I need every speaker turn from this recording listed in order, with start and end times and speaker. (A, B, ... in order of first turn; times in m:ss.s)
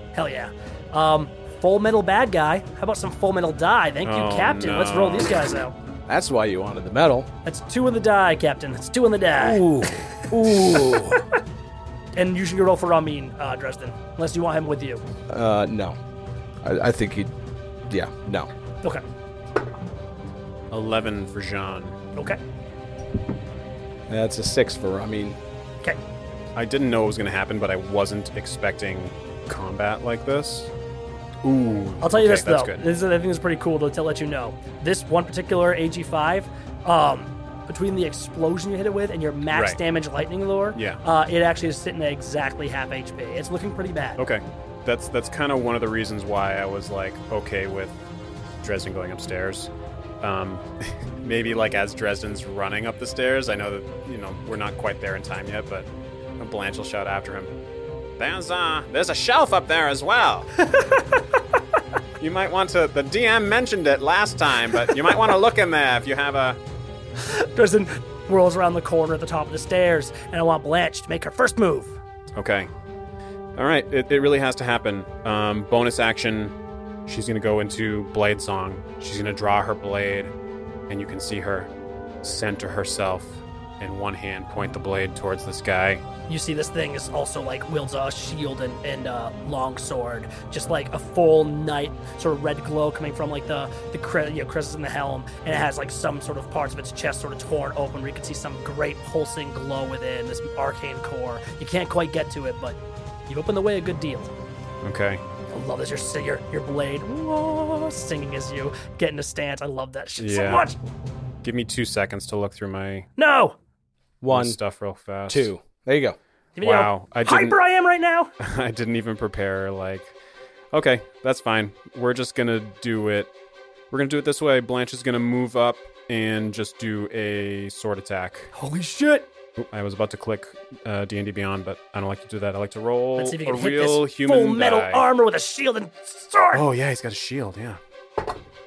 0:00.1-0:05.7 A
0:04.0-0:05.4 B
0:06.1-0:07.3 C
0:07.4-0:11.2 A
0:09.4-0:11.2 C
0:12.1-0:15.0 A
0:15.3-0:16.0 C
0:16.6-0:17.3 C
0:17.9-0:18.5 C
0:20.7-0:22.0 B
0:22.1-0:22.4 A
0:24.1-0:25.4 C
0:26.6-0:30.7 B
0:31.4-0:32.8 B
0:32.0-0:44.2 A
0:39.5-0:39.8 B
0:40.7-0:41.0 B
0:44.2-0:48.0 B
0:48.6-0:49.7 B
0:50.2-0:55.9 B
0:56.4-0:57.5 B
0:58.2-1:00.5 B
1:00.6-1:01.4 A
1:02.2-1:06.6 B
1:07.2-1:12.0 A
1:12.4-1:12.7 B
1:13.6-1:16.5 B
1:17.1-1:20.3 B
1:20.9-1:21.7 B
1:22.2-1:26.0 B
1:26.3-1:44.3 A
1:44.8-1:45.2 B
1:45.5-1:50.8 A
1:50.2-1:50.7 B
1:51.4-1:53.1 B
1:53.2-1:53.6 A
1:54.2-1:54.6 C
1:54.3-1:55.5 B
1:55.3-1:56.2 C
1:56.6-1:58.3 A
1:56.6-1:57.6 B
1:58.4-2:00.1 B
2:00.7-2:03.3 B
2:03.9-2:08.5 B
2:08.5-2:09.3 A
2:09.7-2:15.0 B
2:13.2-2:16.6 A
2:16.5-2:17.8 B